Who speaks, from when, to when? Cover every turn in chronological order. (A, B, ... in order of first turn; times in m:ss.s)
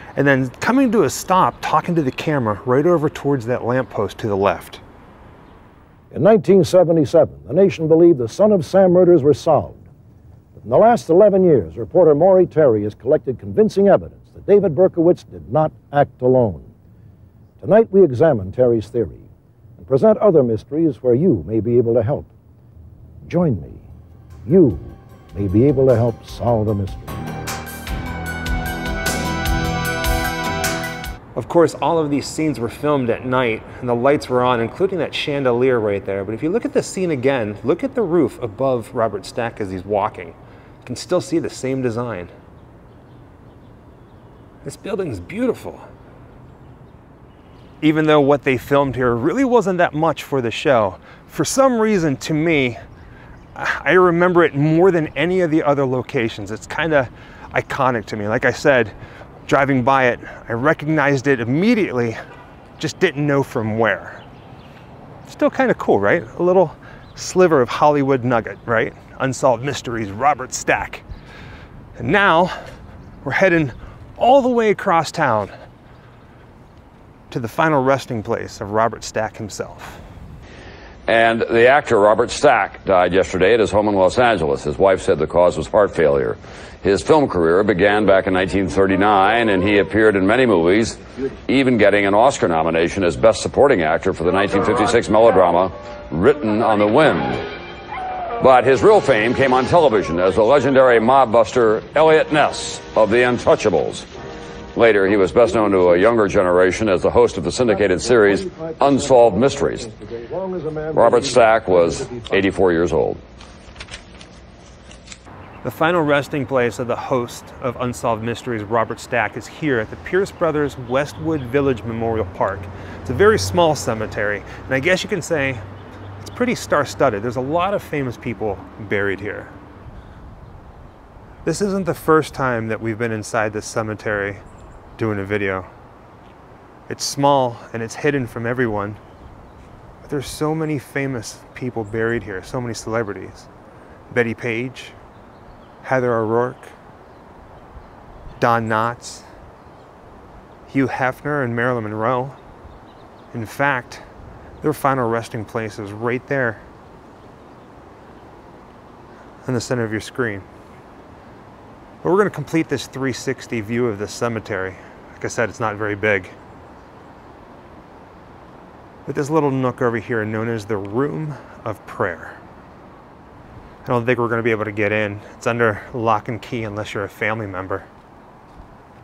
0:00.2-0:04.8 A
0:06.1-0:09.8 B
0:10.6-0:16.7 B
0:17.6-0:19.2 B
0:19.8-0:22.3 B
0:23.2-0:23.8 B
0:24.5-0:27.2 B
0:31.4-0:42.3 A
0:44.6-0:45.8 A
0:47.8-0:52.8 A
0:53.6-0:59.0 A
0:59.5-1:02.2 A
1:02.8-1:04.2 A
1:05.3-1:11.0 A
1:12.0-1:12.6 A
1:13.2-1:15.5 A
1:17.3-1:20.0 A
1:21.1-1:37.5 C
1:38.4-1:44.1 C
1:44.8-1:49.9 C
1:47.8-1:52.4 B
1:50.9-1:53.2 C
1:55.6-2:05.6 A
2:06.2-2:09.6 A
2:11.4-2:14.4 A
2:15.0-2:15.7 A
2:16.9-2:19.0 A
2:20.0-2:23.5 A
2:24.1-2:25.0 A
2:25.8-2:26.8 A
2:28.4-2:29.3 A
2:30.7-2:32.4 A
2:33.3-2:34.0 A
2:34.6-2:36.6 A
2:39.4-2:40.4 A
2:42.0-2:46.4 A
2:49.1-2:52.4 A
2:53.8-2:57.9 A